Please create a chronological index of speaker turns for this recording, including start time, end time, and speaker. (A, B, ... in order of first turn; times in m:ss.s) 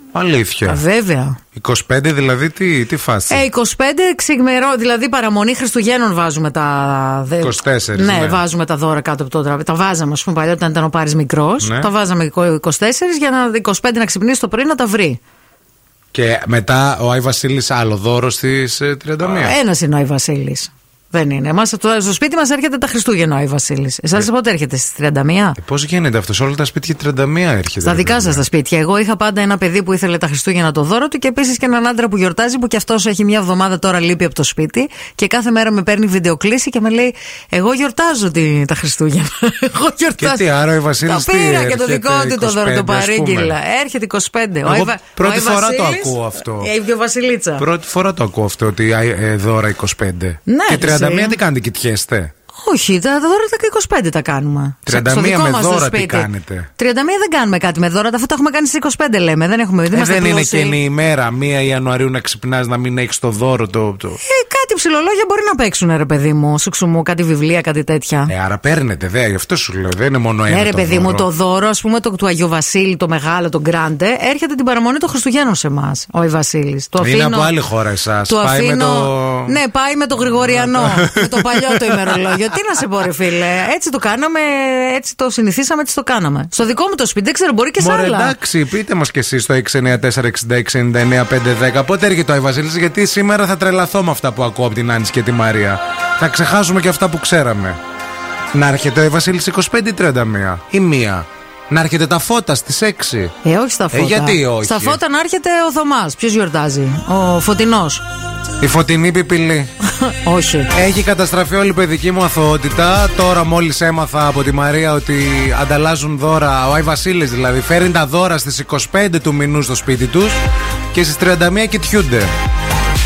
0:00.1-0:00.8 A
0:00.6-0:01.4 B
0:01.6-0:03.4 A
0:03.3-0:15.2 B
0:07.4-0:08.4 A
0:11.6-0:11.9 A
0:16.1-0:19.6 A
0:19.2-0:25.6 B
0:25.6-0:28.4 A
0:27.8-0:40.4 B
0:40.2-0:43.5 A
0:41.0-0:47.6 B
0:44.6-0:46.7 A
0:47.6-0:52.3 A
0:50.5-0:51.4 B
0:52.6-1:00.8 B
0:54.8-0:56.7 A
0:59.9-1:04.2 A
1:04.2-1:08.3 B
1:08.3-1:11.2 A
1:10.5-1:17.5 B
1:17.0-1:19.6 A
1:18.3-1:28.3 B
1:20.3-1:22.4 A
1:27.8-1:37.8 A
1:38.5-1:43.3 A
1:43.4-1:48.0 B
1:43.9-1:45.0 A
1:48.6-1:49.7 A
1:50.0-1:50.7 B
1:50.7-2:00.4 A
2:00.9-2:02.3 A